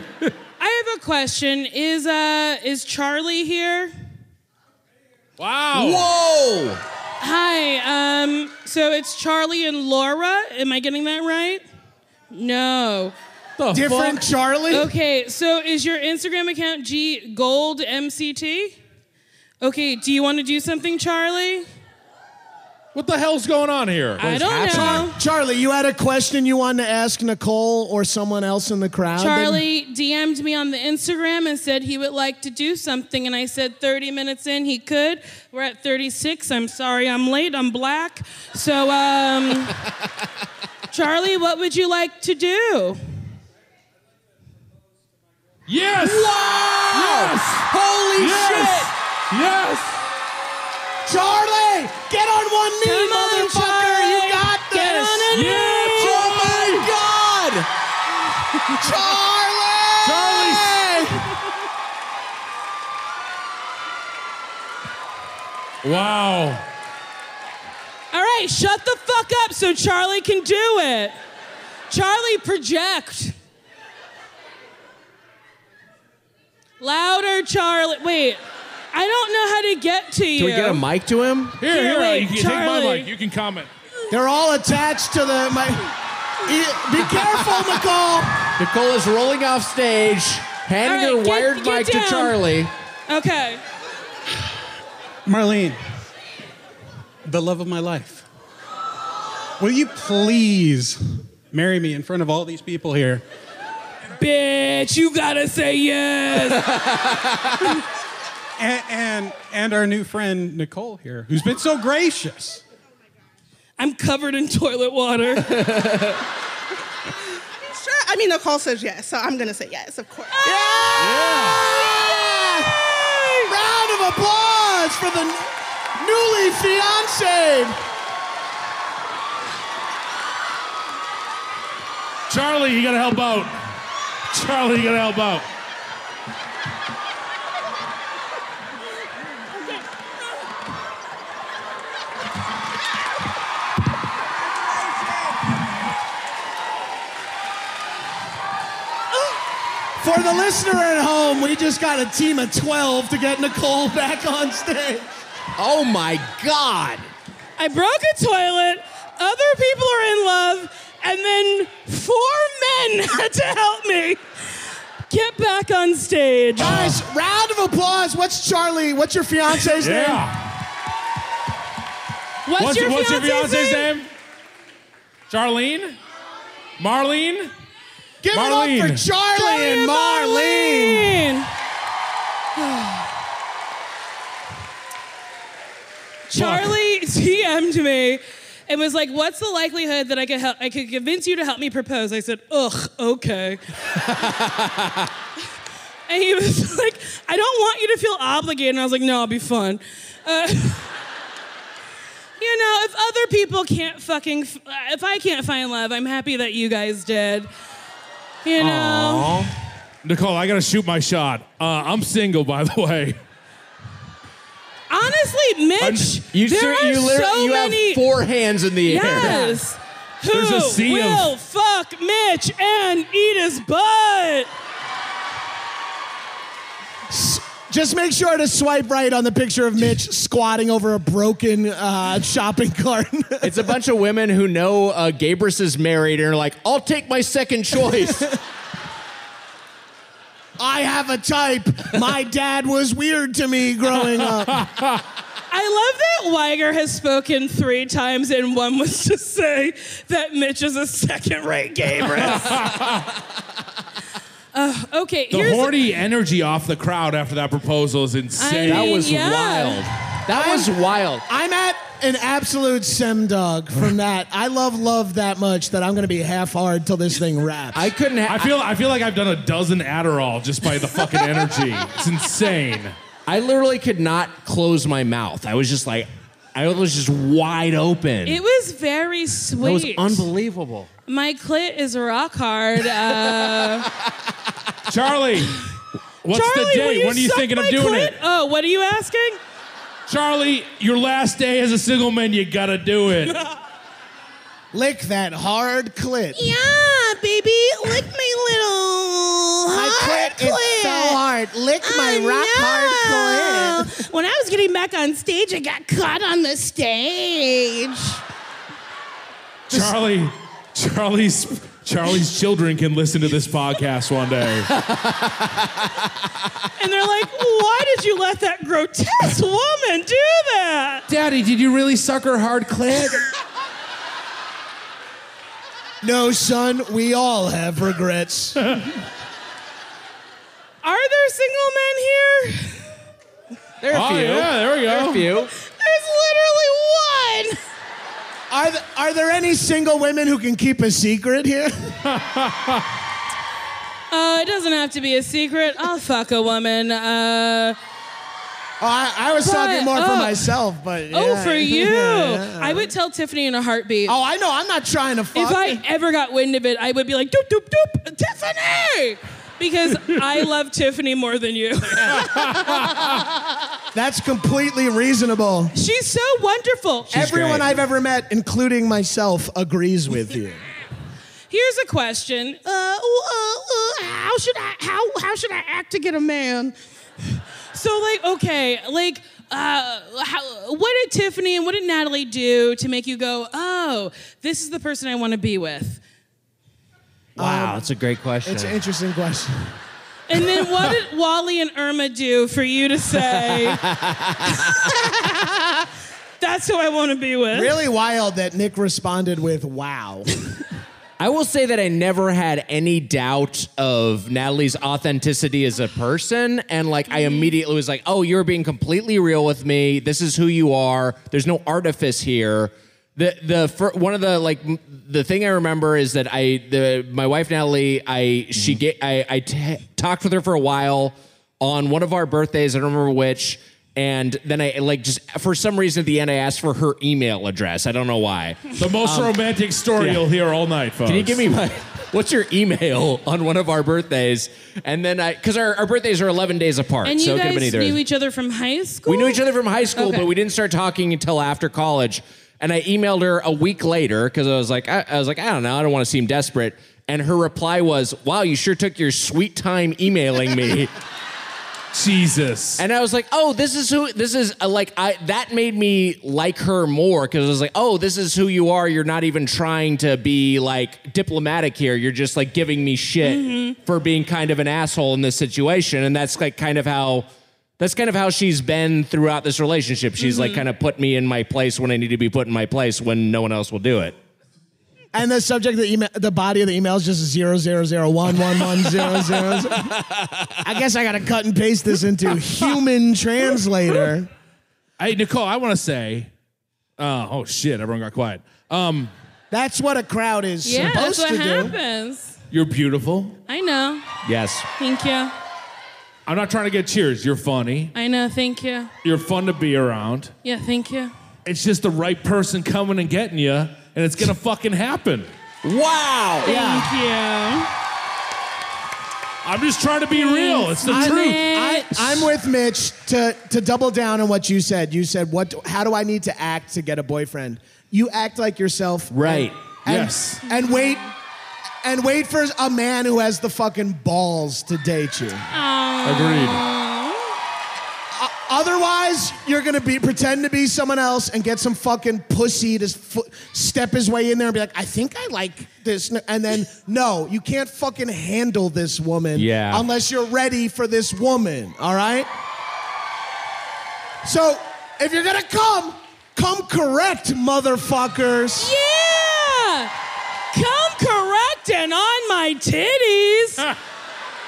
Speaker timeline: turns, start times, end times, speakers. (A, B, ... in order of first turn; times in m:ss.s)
0:00.6-0:03.9 A
0:05.4-0:06.1 B
0:05.7-0:06.8 C
0:07.2-0:11.6 A
0:12.3-0:13.1 A
0:13.6-0:14.2 B
0:13.7-0:14.9 D
0:14.7-0:18.8 A
0:19.6-0:21.7 A
0:23.0-0:25.0 B
0:24.2-0:25.1 C
0:24.2-0:25.2 A
0:24.7-0:29.6 D
0:29.2-0:39.8 A
0:40.9-0:43.0 A
0:45.7-0:50.0 B
0:46.0-0:48.9 C
0:51.1-0:55.5 D
0:52.8-0:56.2 A
0:55.3-0:56.9 B
0:56.2-0:56.8 D
0:56.4-0:57.7 C
0:58.8-1:01.1 D
1:00.0-1:01.0 B
1:05.8-1:06.6 B
1:08.1-1:11.2 A
1:11.9-1:13.3 A
1:16.8-1:18.4 A
1:18.9-1:20.8 A
1:20.4-1:21.6 C
1:21.6-1:23.7 B
1:21.7-1:23.1 A
1:24.1-1:25.9 D
1:26.4-1:28.4 D
1:28.6-1:32.7 C
1:30.8-1:32.4 A
1:33.1-1:33.6 A
1:35.3-1:35.8 E
1:37.3-1:38.2 E
1:39.6-1:41.0 E
1:41.5-1:43.2 E
1:44.2-1:46.8 A
1:46.5-1:47.5 C
1:48.6-1:52.6 E
1:53.8-1:55.6 A
1:55.5-1:56.2 C
1:57.6-2:00.4 F
2:00.4-2:03.5 A
2:00.4-2:02.8 D
2:01.0-2:01.7 B
2:03.5-2:07.8 D
2:12.3-2:13.5 B
2:14.3-2:15.4 B
2:30.0-2:35.1 D
2:35.6-2:37.1 C
2:37.6-2:44.2 A
2:45.1-2:47.0 A
2:46.6-2:50.2 D
2:49.8-2:50.4 B
2:52.5-2:53.9 A
2:52.6-2:54.1 B
2:55.3-2:56.0 B
2:56.8-2:57.5 B
2:58.2-3:01.2 D
2:58.3-2:59.0 B
2:59.4-3:01.5 A
3:02.6-3:03.1 A
3:06.3-3:13.6 A
3:06.4-3:06.8 B
3:14.1-3:15.0 C
3:16.1-3:20.9 A
3:22.4-3:27.5 A
3:28.4-3:29.5 A
3:28.6-3:29.5 C
3:30.0-3:33.2 B
3:34.9-3:38.1 A
3:35.8-3:36.2 B
3:36.3-3:39.6 C
3:38.8-3:44.5 A
3:40.3-3:41.3 B
3:47.1-3:53.7 D
3:53.4-3:58.3 C
4:00.6-4:04.6 D
4:05.5-4:12.7 A
4:12.2-4:13.0 B
4:14.5-4:15.8 A
4:15.3-4:19.0 B
4:18.4-4:19.9 A
4:18.6-4:21.2 C
4:20.3-4:20.7 D
4:21.3-4:27.9 D
4:27.7-4:28.6 C
4:28.3-4:33.0 B
4:33.3-4:38.4 C
4:38.2-4:40.3 A
4:39.6-4:40.9 C
4:41.1-4:43.9 A
4:44.9-4:45.6 B
4:46.2-4:48.2 B
4:46.3-4:49.4 A
4:50.1-4:53.4 B
4:54.7-4:56.5 D
4:56.4-5:01.2 A
4:59.7-5:04.0 D
5:01.8-5:08.2 A
5:09.7-5:14.7 B
5:14.7-5:15.6 C
5:16.8-5:21.0 A
5:21.1-5:23.2 B
5:26.0-5:28.6 D
5:30.8-5:32.8 A
5:33.8-5:35.5 C
5:33.9-5:35.3 B
5:35.7-5:37.6 A
5:38.5-5:42.0 D
5:42.1-5:42.8 B
5:44.1-5:47.8 A
5:48.8-5:52.9 D
5:49.4-5:50.5 A
5:51.1-5:54.2 A
5:54.1-5:55.8 D
5:55.3-6:02.9 A
6:02.2-6:02.7 B
6:03.9-6:05.7 D
6:05.8-6:07.2 A
6:07.1-6:10.6 D
6:07.1-6:07.7 C
6:11.5-6:16.7 A
6:17.2-6:26.0 A
6:27.4-6:27.8 D
6:27.4-6:28.8 C
6:28.4-6:29.7 D
6:30.3-6:33.8 A
6:33.4-6:34.9 C
6:36.4-6:37.8 A
6:37.5-6:40.4 D
6:41.2-7:09.4 C
6:47.1-6:47.5 A
7:08.8-7:11.5 B
7:10.0-7:10.3 C
7:11.1-7:18.0 C
7:17.0-7:19.4 A
7:19.1-7:30.9 C
7:20.0-7:20.3 A
7:31.9-7:32.8 B
7:32.8-7:47.3 C
7:43.2-7:43.8 A
7:47.8-7:54.2 C
7:50.2-7:50.6 A
7:55.1-7:59.9 D
7:59.9-8:00.5 C
8:00.6-8:04.3 D
8:05.0-8:06.3 B
8:07.0-8:09.1 B
8:09.5-8:11.8 D
8:10.6-8:12.4 A
8:12.5-8:13.4 B
8:13.5-8:14.0 A
8:14.2-8:14.7 C
8:14.8-8:15.3 A
8:16.3-8:17.9 B
8:18.0-8:18.9 A
8:19.0-8:20.3 B
8:20.4-8:21.1 A
8:21.4-8:25.3 B
8:25.6-8:26.5 C
8:26.4-8:26.9 D
8:26.4-8:27.7 A
8:29.4-8:31.5 B
8:30.1-8:32.3 A
8:30.9-8:41.1 D
8:39.1-8:39.6 C
8:39.9-8:40.4 B
8:40.5-8:41.0 A
8:41.8-8:45.5 D
8:45.5-8:47.3 A
8:46.0-8:46.7 B
8:48.2-9:02.3 D
8:59.4-8:59.8 C
9:04.2-9:08.7 D
9:08.6-9:09.9 A
9:10.5-9:13.6 A